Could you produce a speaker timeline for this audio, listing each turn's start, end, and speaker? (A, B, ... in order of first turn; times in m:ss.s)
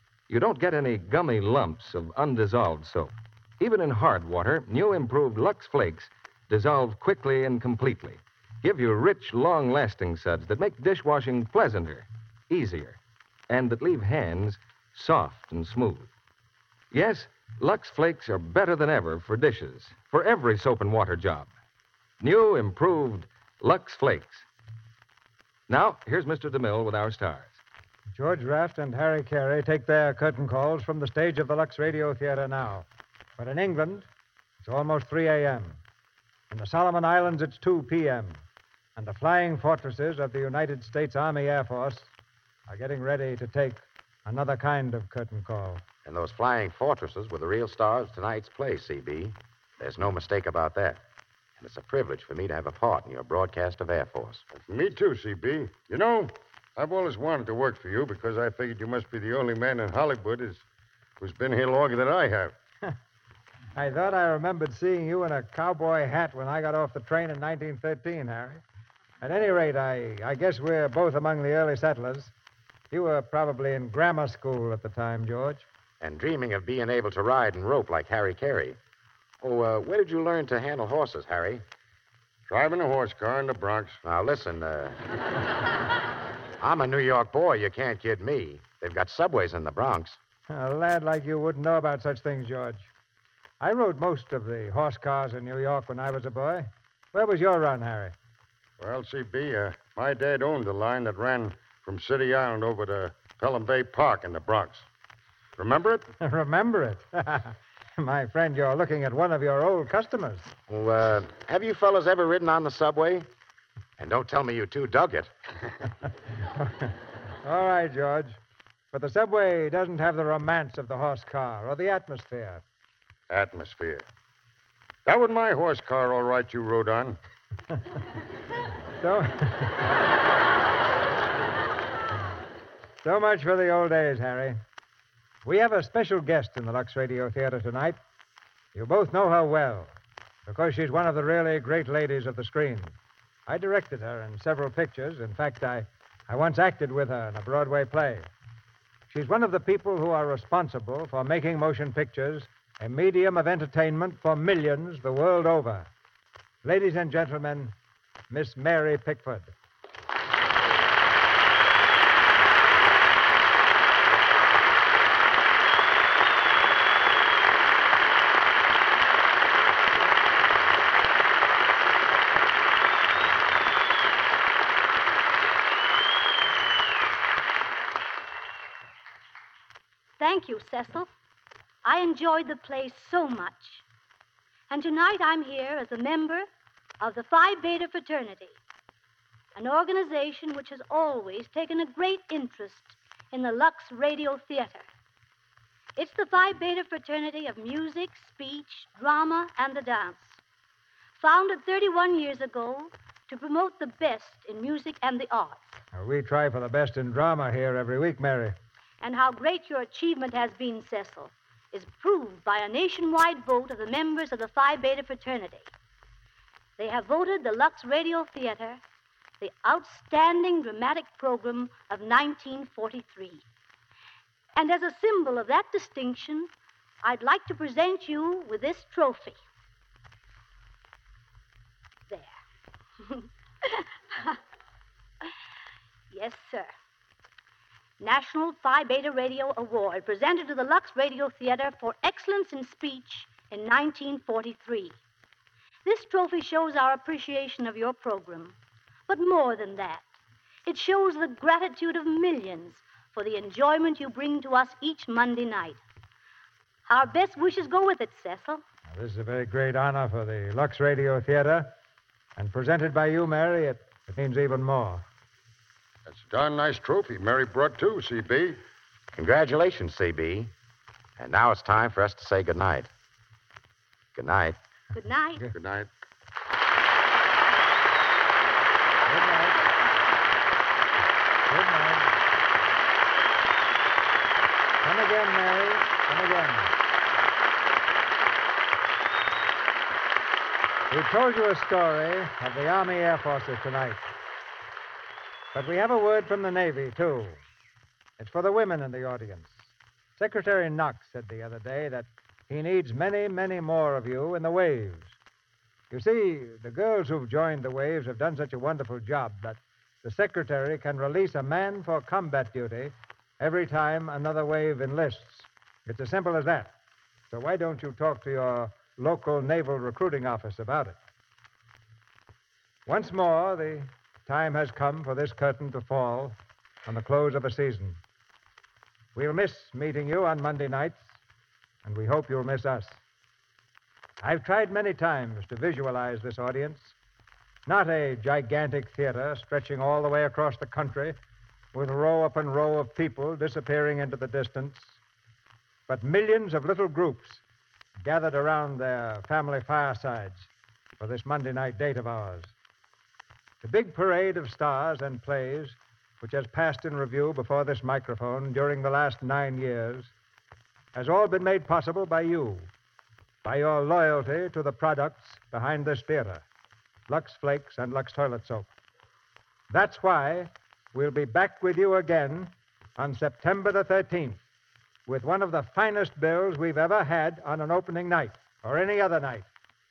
0:00.3-0:16.1 A
0:16.9-0:21.5 A
0:22.2-0:24.5 A
0:25.7-0:27.6 A
0:28.1-0:32.9 B
0:33.4-0:34.1 B
0:34.6-0:35.8 B
0:36.5-0:38.4 B
0:39.0-0:42.1 B
0:42.7-0:45.8 B
0:46.0-0:51.0 C
0:51.6-0:54.5 C
0:54.6-1:00.6 D
1:01.2-1:02.6 D
1:03.8-1:08.6 B
1:09.2-1:12.3 B
1:12.9-1:15.7 B
1:16.0-1:18.8 C
1:19.4-1:21.6 C
1:22.5-1:24.0 D
1:24.0-1:25.0 C
1:26.6-1:30.2 C
1:30.5-1:32.9 B
1:33.6-1:38.2 B
1:38.8-1:44.9 D
1:45.6-1:46.1 D
1:46.2-1:50.5 B
1:50.7-1:53.3 C
1:54.0-1:55.3 C
1:56.6-1:56.9 B
1:57.4-1:58.4 B
1:58.9-2:02.6 B
2:03.3-2:04.0 D
2:05.1-2:07.2 D
2:09.0-2:09.8 B
2:13.0-2:14.6 B
2:15.4-2:18.0 B
2:18.7-2:19.9 B
2:20.5-2:23.0 B
2:23.5-2:28.3 B
2:29.1-2:35.9 B
2:36.6-2:37.7 B
2:38.3-2:39.5 B
3:00.2-3:01.1 E
3:01.8-3:03.8 E
3:04.7-3:06.5 E
3:07.0-3:08.6 E
3:09.6-3:14.8 E
3:16.0-3:20.4 E
3:21.2-3:25.7 E
3:25.9-3:28.6 B
3:29.0-3:35.7 E
3:36.8-3:38.8 E
3:39.4-3:43.4 E
3:44.6-3:46.5 E
3:47.0-3:49.4 E
3:53.0-3:54.4 E
3:56.1-3:56.7 E
3:58.0-4:05.0 E
4:05.8-4:08.6 E
4:09.1-4:10.1 E
4:10.7-4:15.8 E
4:16.9-4:18.6 E
4:18.9-4:21.7 B
4:22.4-4:25.0 B
4:26.1-4:28.6 D
4:29.1-4:30.5 C
4:31.2-4:32.9 C
4:34.2-4:34.6 C
4:34.9-4:35.5 E
4:35.5-4:35.9 D
4:39.1-4:39.6 B
4:41.5-4:42.1 B
4:44.8-4:46.7 B
4:50.9-4:54.0 B
4:55.5-4:57.4 B
4:58.2-5:05.2 B
5:05.9-5:16.8 B
5:17.3-5:21.0 B
5:22.9-5:28.0 B
5:29.2-5:31.2 B
5:31.8-5:33.0 B
5:34.2-5:37.0 B
5:37.7-5:41.2 B
5:41.7-5:45.0 B
5:45.9-5:47.4 B
5:48.0-5:52.5 B
5:53.6-6:00.1 B
6:01.0-6:02.7 B
6:03.4-6:06.4 B
6:07.1-6:08.7 B
6:09.7-6:14.4 B
6:15.1-6:19.5 B